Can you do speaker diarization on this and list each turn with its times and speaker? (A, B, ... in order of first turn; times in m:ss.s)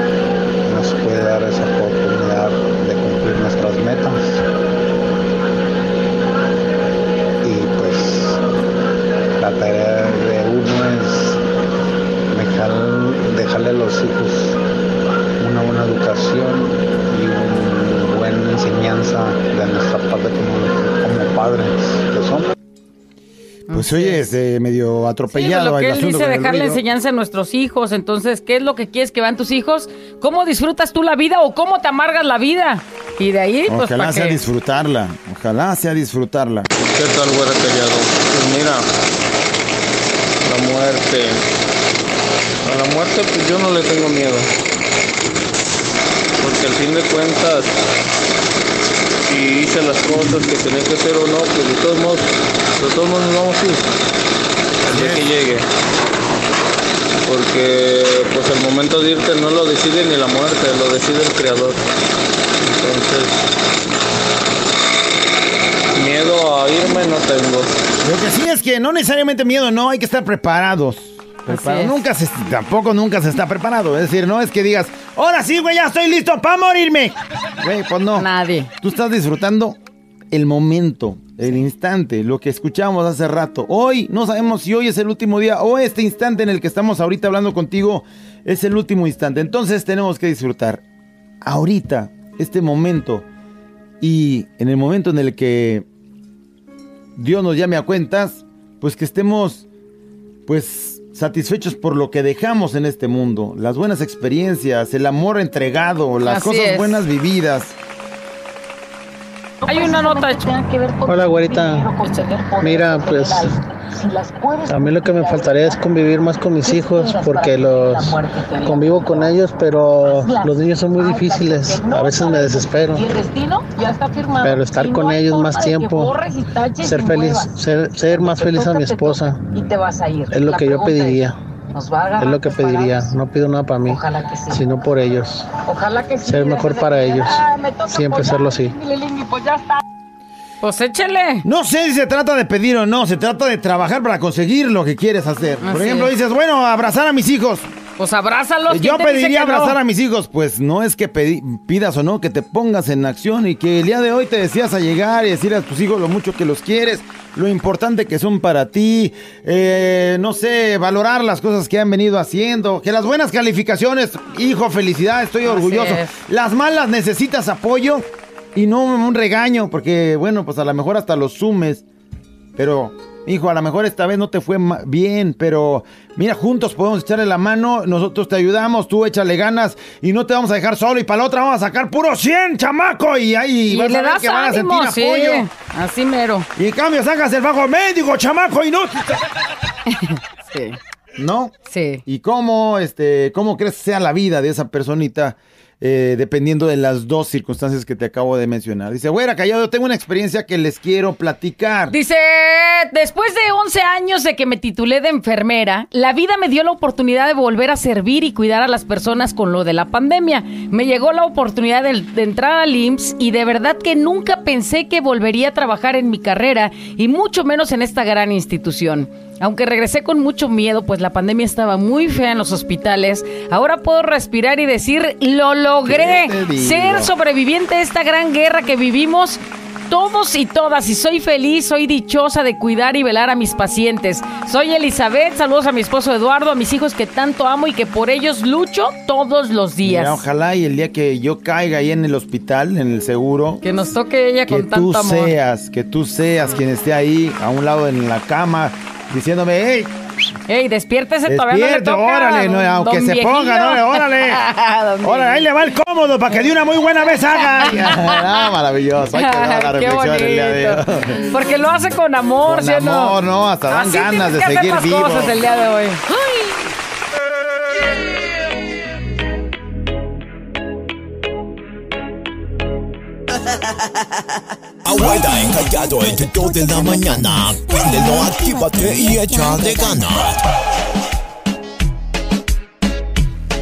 0:00.6-0:04.4 A
0:07.4-0:08.4 A
0:09.4-0:11.4 A
0:12.3-0:14.6 A
0:15.4-0:22.5 A
0:23.7-0:24.2 B
0:23.7-0:26.8 C
0:25.3-0:34.4 B
0:33.7-0:36.7 C
0:36.8-0:38.9 D
0:40.4-0:41.4 D
0:42.6-0:44.5 D
0:46.4-0:47.8 D
0:49.2-0:53.9 D
0:54.8-0:55.6 D
0:57.2-1:01.8 D
1:02.6-1:03.4 D
1:05.9-1:07.8 D
1:08.0-1:18.3 C
1:11.5-1:12.0 B
1:18.1-1:18.7 B
1:18.8-1:19.8 C
1:20.3-1:30.8 C
1:31.4-1:33.2 C
1:34.0-1:35.8 C
1:37.2-1:39.6 C
1:40.5-1:47.8 C
1:46.2-1:47.0 B
1:49.6-1:55.8 B
1:51.0-1:51.9 E
1:52.6-1:53.6 E
1:54.6-2:03.1 E
1:56.6-1:59.4 B
2:00.2-2:07.6 B
2:04.4-2:06.2 E
2:06.8-2:09.4 E
2:08.1-2:13.1 B
2:10.3-2:11.4 E
2:12.2-2:15.5 E
2:13.8-2:14.6 B
2:15.6-2:19.8 B
2:16.2-2:18.8 E
2:20.6-2:21.4 B
2:21.4-2:27.7 C
2:25.6-2:26.1 B
2:28.0-2:29.8 B
2:28.7-2:51.8 C
2:45.4-2:46.1 B
2:52.6-3:05.5 C
3:03.7-3:06.5 B
3:06.6-3:09.2 C
3:09.9-3:10.8 B
3:11.2-3:11.5 C
3:11.7-3:12.0 B
3:12.0-3:22.0 C
3:21.9-4:00.2 B
3:45.8-3:47.1 C
3:59.8-4:03.6 C
4:03.6-4:05.3 B
4:04.5-4:09.9 C
4:10.5-4:15.5 B
4:11.2-4:14.4 C
4:15.0-4:21.3 C
4:17.6-4:18.2 B
4:19.1-4:23.2 B
4:22.4-4:25.5 C
4:23.7-4:26.6 B
4:34.8-4:40.4 F